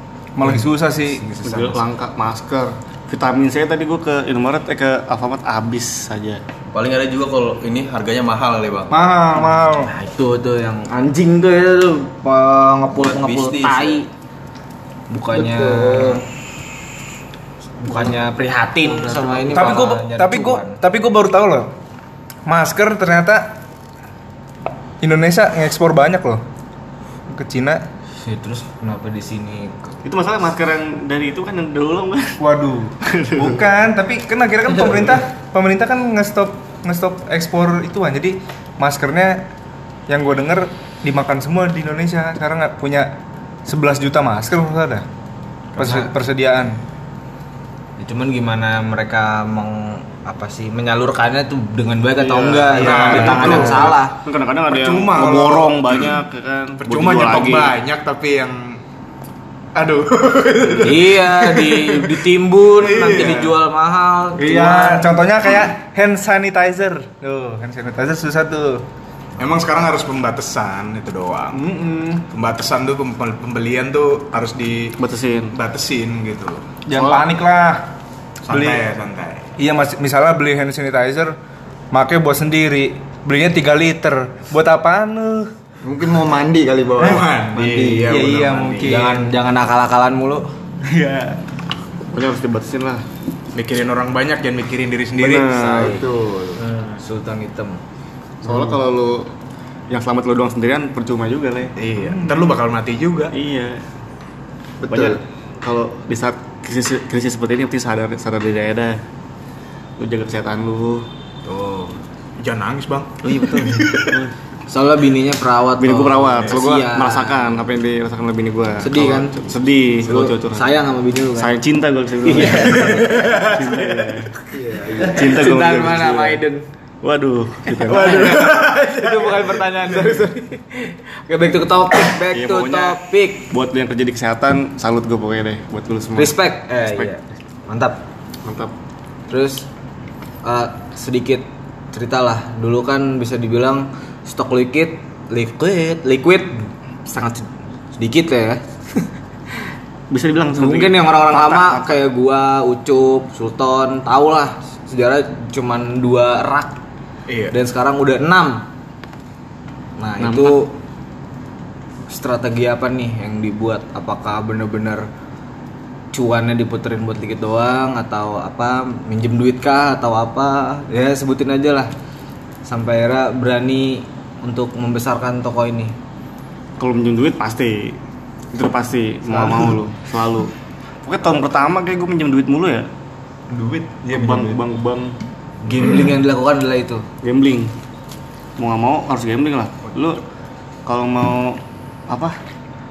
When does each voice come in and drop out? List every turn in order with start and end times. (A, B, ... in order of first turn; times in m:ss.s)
0:00.4-0:01.2 A
0:00.4-0:01.8 B
0:01.4-0:06.4 C
0:06.7-0:09.0 D
0:08.9-0:09.9 A
0:09.3-0:14.1 B
0:12.9-0:14.0 D
0:15.1-0:16.2 B
0:15.4-0:16.2 E
0:17.8-0:20.8 B
0:19.5-0:21.7 A
0:22.5-0:23.6 A
0:25.0-0:26.4 A
0:27.3-0:27.8 A
0:28.2-0:29.9 B
0:30.0-0:32.4 C
0:32.4-0:39.4 A
0:33.0-0:33.6 C
0:40.1-0:43.1 A
0:43.7-0:45.0 A
0:45.8-0:46.8 A
0:48.0-0:54.1 B
0:52.2-0:57.7 C
0:52.8-0:53.9 F
0:53.2-0:53.9 A
0:54.7-0:56.2 F
0:56.8-0:58.8 F
0:59.8-1:02.2 F
1:00.8-1:05.1 B
1:02.8-1:03.6 F
1:04.4-1:08.8 A
1:09.4-1:11.6 F
1:11.5-1:12.2 A
1:12.3-1:15.0 F
1:15.0-1:15.5 C
1:15.5-1:16.8 F
1:16.9-1:17.9 A
1:16.9-1:17.2 C
1:18.4-1:19.5 F
1:18.5-1:18.8 A
1:19.6-1:21.4 A
1:21.9-1:25.5 A
1:25.8-1:28.2 E
1:27.0-1:29.0 F
1:27.0-1:29.3 A
1:28.8-1:30.5 B
1:30.8-1:31.4 A
1:32.1-1:33.0 C
1:33.5-1:35.5 F
1:35.2-1:36.0 C
1:35.6-1:36.0 B
1:35.7-1:36.6 E
1:36.6-1:37.8 B
1:38.4-1:39.3 C
1:38.4-1:38.8 E
1:39.9-1:41.7 C
1:41.8-1:43.3 F
1:42.1-1:42.5 A
1:43.3-1:43.8 C
1:44.8-1:45.2 E
1:44.9-1:49.0 C
1:50.0-1:51.0 C
1:51.4-1:52.0 B
1:52.4-1:53.2 F
1:53.2-1:54.3 C
1:53.3-1:53.9 B
1:54.7-1:57.7 B
1:55.8-2:00.7 C
1:58.8-1:59.4 B
2:00.0-2:01.5 B
2:01.4-2:04.3 C
2:02.2-2:03.0 B
2:02.6-2:03.9 F
2:04.5-2:05.3 E
2:05.0-2:06.6 B
2:05.1-2:06.4 C
2:07.0-2:08.5 C
2:07.9-2:10.2 F
2:08.0-2:13.4 B
2:12.3-2:13.0 C
2:13.5-2:17.1 C
2:16.2-2:18.0 B
2:18.4-2:18.7 C
2:19.3-2:19.6 B
2:20.4-2:29.1 B
2:30.1-2:31.9 C
2:30.5-2:36.8 B
2:37.3-2:37.5 F
2:37.5-2:38.6 B
2:40.0-2:40.7 B
2:40.2-2:40.6 C
2:42.1-2:45.0 B
2:46.1-2:51.9 B
2:52.6-2:55.9 B
2:56.8-2:58.0 C
2:58.5-3:00.5 C
3:01.0-3:02.9 C
3:03.6-3:04.5 A
3:04.0-3:05.1 C
3:05.6-3:07.0 B
3:07.2-3:07.7 C
3:08.6-3:10.2 C
3:10.8-3:12.4 C